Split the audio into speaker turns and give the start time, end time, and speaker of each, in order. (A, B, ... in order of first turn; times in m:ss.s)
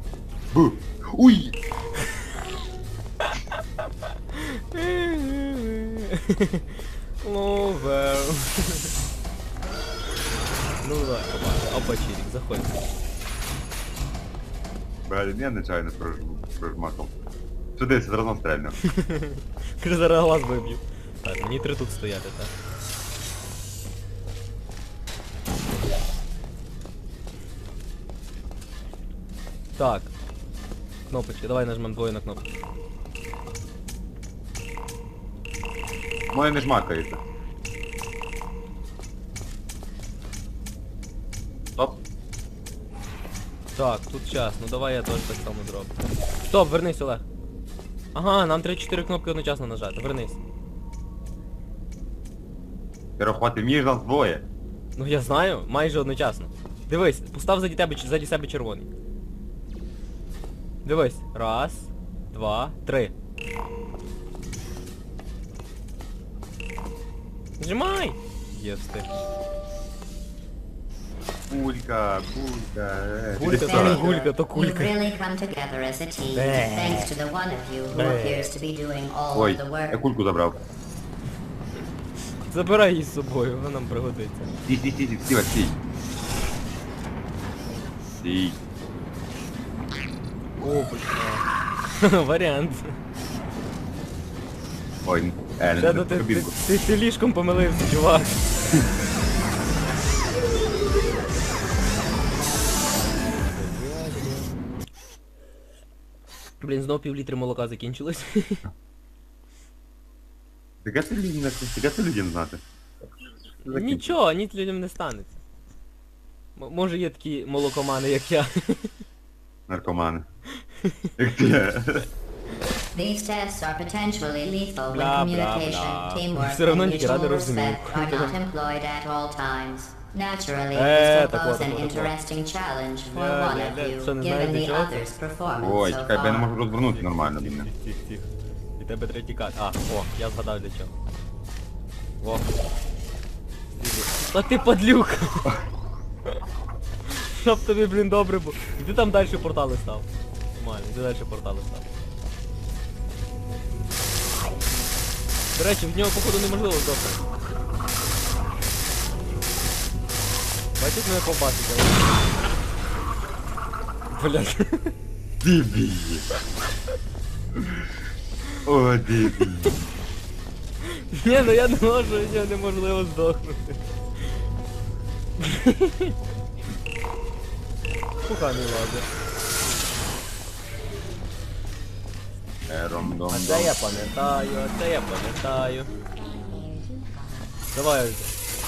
0:00.5-0:01.6 A
0:04.3-0:08.9 B
0:10.8-0:12.8 B
0:15.1-0:17.1 A
0:17.8-0:18.8 A
0:18.8-0:22.5 B
0:29.8-0:30.1 B
0:31.1-0:32.5 B
0:36.3-0:37.2 A
0:43.8-0:46.0 B
0:46.5-0:47.2 B
0:48.1-0:50.4 B
0:53.2-0:54.4 A
0:55.0-0:58.9 B
1:00.8-1:03.1 B
1:07.6-1:09.1 B
1:11.5-1:14.1 A
1:13.4-1:14.9 B
1:13.4-1:20.0 C
1:16.4-1:17.1 B
1:18.0-1:18.4 B
1:19.3-1:20.6 A
1:22.5-1:24.5 B
1:24.7-1:25.8 A
1:28.2-1:28.6 A
1:30.6-1:31.5 B
1:32.0-1:33.0 B
1:35.0-1:36.5 A
1:35.8-1:38.5 B
1:43.5-1:44.5 B
1:46.6-1:48.6 B
1:50.8-1:52.6 A
1:53.6-1:55.4 B
1:53.7-1:54.1 A
1:56.6-1:58.9 B
1:59.7-2:00.2 A
2:00.8-2:01.1 B
2:01.2-2:02.1 A
2:02.9-2:16.5 C
2:04.9-2:08.4 B
2:10.7-2:12.1 B
2:13.1-2:15.0 B
2:15.6-2:17.7 A
2:16.8-2:18.3 B
2:18.8-2:21.0 B
2:22.2-2:22.5 B
2:23.8-2:25.6 B
2:27.0-2:31.9 B
2:35.6-2:37.2 B
2:40.8-2:42.4 B
2:44.1-2:44.9 B
2:45.4-2:46.3 A
2:47.6-2:47.9 A
2:48.6-2:49.8 A
2:50.8-2:53.8 B
2:55.4-2:56.2 B
2:58.2-2:59.1 B
3:02.7-3:04.1 A
3:03.3-3:05.9 B
3:06.6-3:07.2 C
3:07.7-3:08.4 B